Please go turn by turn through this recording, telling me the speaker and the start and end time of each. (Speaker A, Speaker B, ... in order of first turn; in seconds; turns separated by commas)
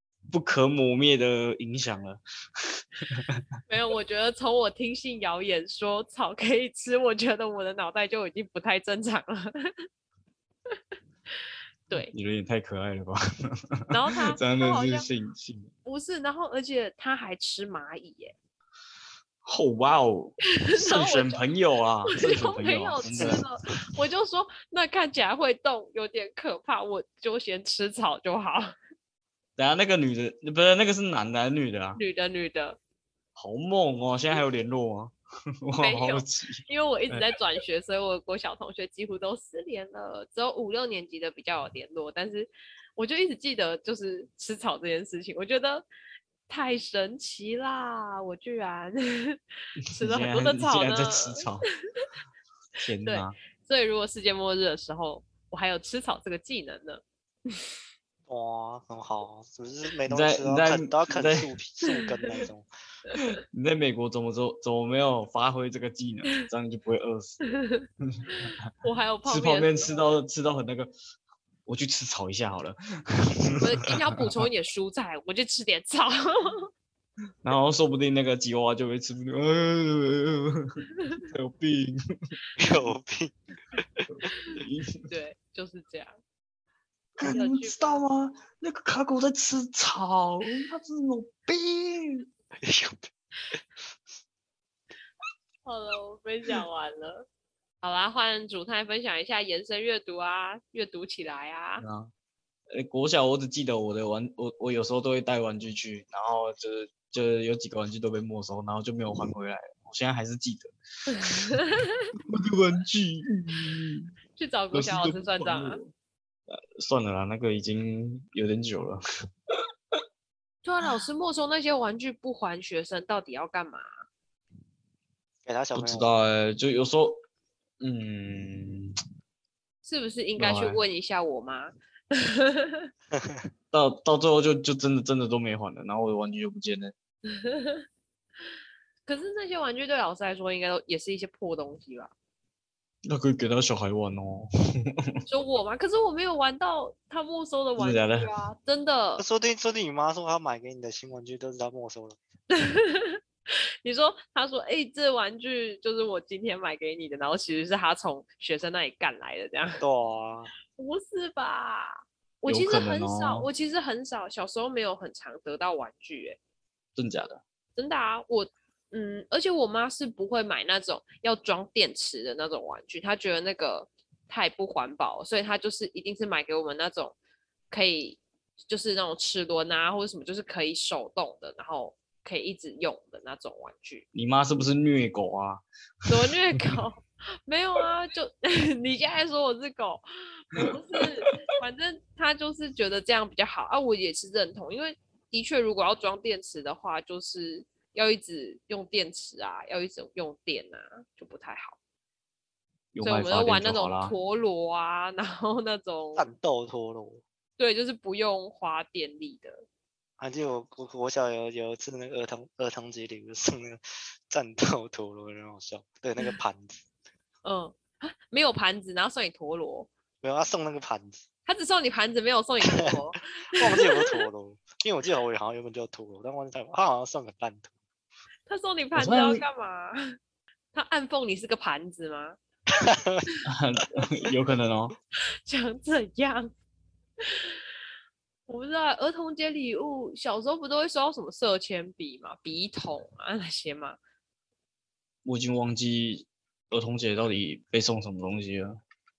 Speaker A: 0.3-3.4, Speaker B: 3.7-9.7, Speaker A: 12.1-15.7, Speaker B: 13.9-15.1, Speaker B: 15.8-18.3, Speaker A: 19.4-23.4, Speaker B: 20.6-21.4, Speaker B: 22.1-28.7, Speaker C: 23.2-23.4, Speaker A: 29.6-32.0, Speaker B: 31.9-32.8, Speaker A: 33.4-37.3, Speaker B: 35.8-45.8, Speaker B: 46.5-51.5, Speaker A: 50.0-51.7, Speaker A: 52.8-53.4, Speaker B: 53.0-57.0, Speaker C: 58.3-62.7, Speaker A: 60.1-61.5, Speaker A: 63.1-67.5, Speaker B: 67.5-70.0, Speaker A: 69.2-70.9, Speaker A: 71.7-73.9, Speaker B: 73.6-76.7, Speaker A: 77.4-82.0, Speaker C: 82.6-84.0, Speaker A: 84.1-85.0, Speaker B: 85.1-86.1, Speaker A: 87.2-92.2, Speaker B: 87.2-88.0, Speaker C: 92.6-93.6, Speaker B: 95.6-97.3, Speaker B: 97.8-101.8, Speaker A: 101.8-102.1, Speaker A: 102.7-111.6, Speaker B: 111.1-112.0, Speaker A: 112.3-114.1, Speaker B: 114.3-115.8, Speaker A: 114.7-115.9, Speaker A: 116.5-119.0, Speaker B: 120.6-123.9, Speaker C: 125.4-126.1, Speaker A: 125.7-127.2, Speaker A: 127.8-128.9, Speaker B: 129.8-132.9, Speaker A: 130.4-130.8, Speaker C: 133.1-133.4, Speaker A: 133.7-136.9, Speaker B: 137.3-137.8, Speaker B: 139.1-142.1, Speaker A: 143.1-145.1, Speaker B: 145.3-149.2, Speaker A: 147.8-148.3, Speaker C: 149.2-152.2, Speaker B: 152.5-159.8, Speaker C: 159.8-160.5, Speaker B: 160.7-166.4, Speaker A: 162.4-163.5, Speaker A: 166.9-167.4, Speaker B: 167.8-177.1, Speaker B: 177.7-184.0, Speaker A: 184.1-185.6, Speaker B: 186.1-201.8, Speaker A: 202.9-204.1, Speaker B: 203.0-206.3, Speaker C: 206.2-207.2, Speaker B: 207.6-209.6, Speaker C: 210.2-216.8, Speaker B: 217.4-219.9, Speaker C: 220.2-221.2, Speaker B: 221.4-224.2, Speaker C: 222.6-223.0, Speaker C: 223.6-227.7, Speaker B: 228.5-230.0, Speaker A: 228.9-229.4, Speaker B: 230.7-232.4, Speaker C: 232.8-233.2, Speaker A: 233.4-234.9, Speaker B: 235.4-236.5, Speaker B: 238.5-244.0, Speaker A: 245.2-248.8